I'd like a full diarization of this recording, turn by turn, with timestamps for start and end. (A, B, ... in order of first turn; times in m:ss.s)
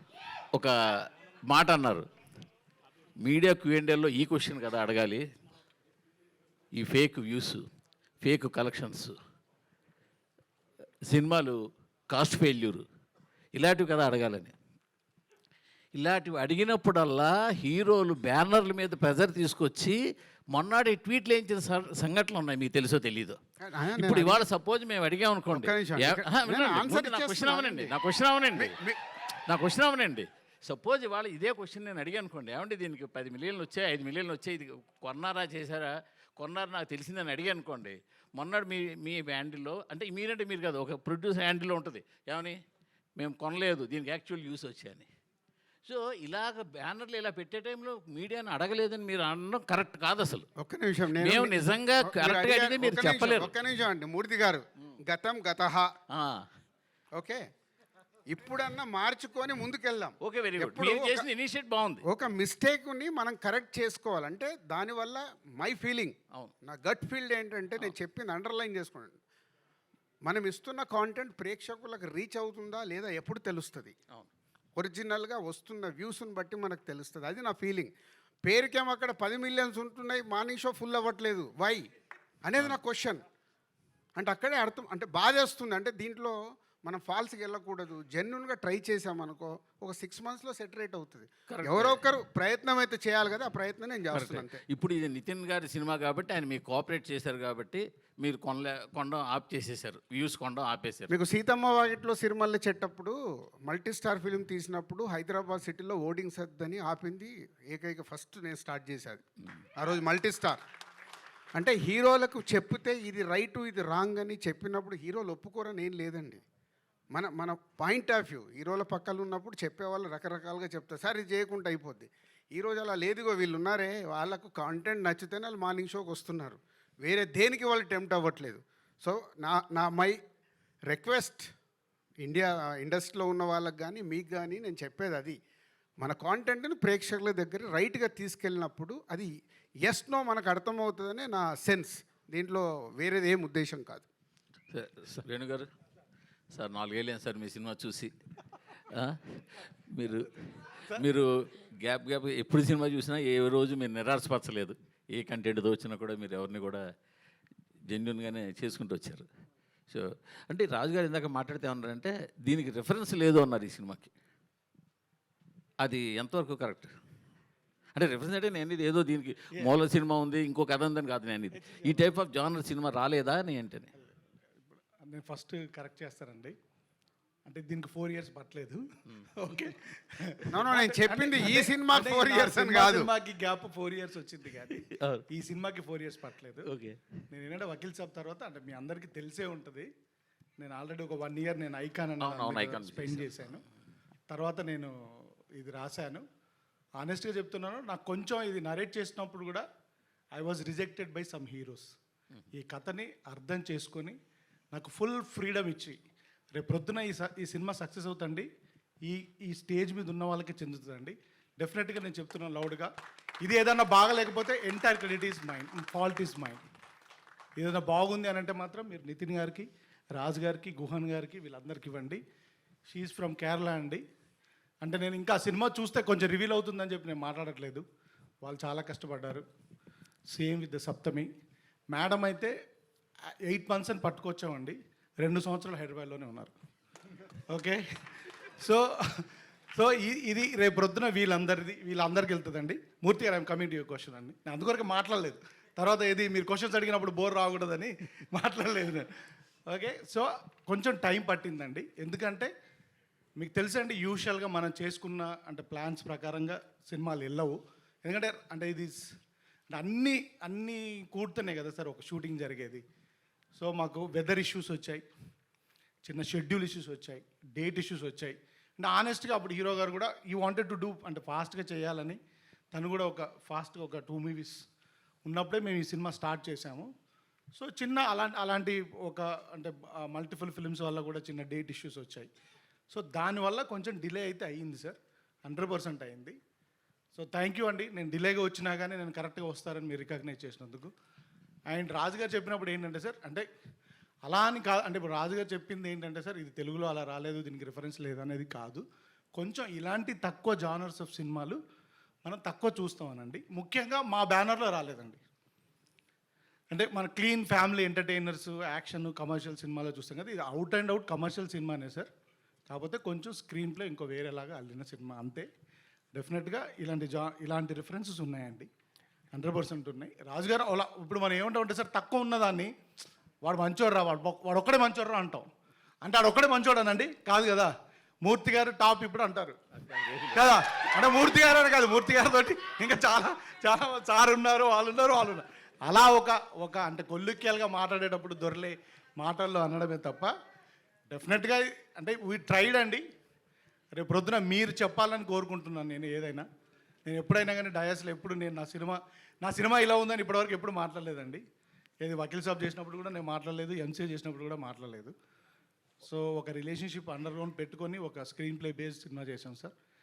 0:01.5-0:02.0 A
0:03.2-0:05.2 A
0:06.7-0:07.6 A
0:08.2-0:09.2 A
0:11.1-0:11.6 A
0:12.1-0:12.8 A
0:13.5-0:14.5 A
0:16.0-0:20.0 A
0:20.5-0:23.4 A
0:23.6-0:24.5 B
0:24.0-0:28.8 A
0:25.5-0:28.0 B
0:28.5-0:29.0 B
0:29.5-0:42.6 A
0:43.2-0:45.1 A
0:45.8-0:50.5 A
0:50.6-0:55.9 B
0:51.2-0:53.6 A
0:56.1-0:56.5 A
0:57.2-0:57.4 B
0:58.3-1:01.3 B
1:00.2-1:02.0 A
1:02.1-1:09.2 B
1:10.2-1:13.9 B
1:14.8-1:17.9 B
1:18.5-1:21.8 B
1:22.4-1:23.2 B
1:24.2-1:34.6 B
1:31.5-1:32.0 A
1:34.1-1:41.1 A
1:41.1-1:49.2 B
1:49.8-1:50.6 B
1:51.6-1:56.4 B
1:57.1-2:10.2 B
2:10.9-2:11.5 B
2:12.2-2:15.4 B
2:16.0-2:19.3 B
2:19.8-2:24.1 B
2:24.7-2:25.7 A
2:26.5-2:28.1 A
2:28.9-2:36.8 A
2:37.9-2:39.3 A
2:39.9-2:44.1 A
2:45.8-2:46.9 A
2:48.0-2:53.9 A
2:51.6-2:52.1 C
2:54.6-2:56.6 C
2:57.5-3:06.7 C
3:00.5-3:03.1 B
3:04.7-3:05.2 A
3:06.7-3:07.0 A
3:07.3-3:09.9 C
3:10.6-3:13.6 C
3:12.2-3:13.6 A
3:14.3-3:14.9 C
3:15.6-3:16.2 C
3:17.0-3:19.6 C
3:20.4-3:21.9 C
3:22.6-3:24.2 C
3:24.7-3:26.0 C
3:26.6-3:28.5 C
3:29.0-3:32.9 C
3:33.4-3:36.6 C
3:37.6-3:42.2 C
3:42.9-3:44.0 C
3:44.8-3:47.8 C
3:48.4-3:49.4 C
3:50.3-3:51.3 C
3:51.9-3:52.5 C
3:53.4-3:56.5 C
3:57.5-4:09.1 C
4:09.7-4:12.5 C
4:13.4-4:19.0 C
4:19.7-4:22.8 C
4:23.6-4:25.0 C
4:26.1-4:32.2 C
4:32.7-4:34.6 C
4:35.3-4:36.9 C
4:37.6-4:42.3 C
4:42.9-4:46.4 C
4:47.2-4:50.9 C
4:51.7-4:53.4 C
4:54.3-4:58.8 C
4:59.4-5:01.6 C
5:02.2-5:05.2 C
5:06.7-5:12.1 C
5:12.7-5:15.5 C
5:16.2-5:18.7 C
5:19.3-5:22.7 C
5:23.4-5:25.5 C
5:26.0-5:27.7 C
5:28.2-5:29.6 C
5:29.8-5:30.6 A
5:30.3-5:40.3 C
5:41.1-5:43.0 C
5:44.0-5:46.5 C
5:47.1-5:51.4 C
5:52.0-5:55.1 C
5:56.0-5:59.7 C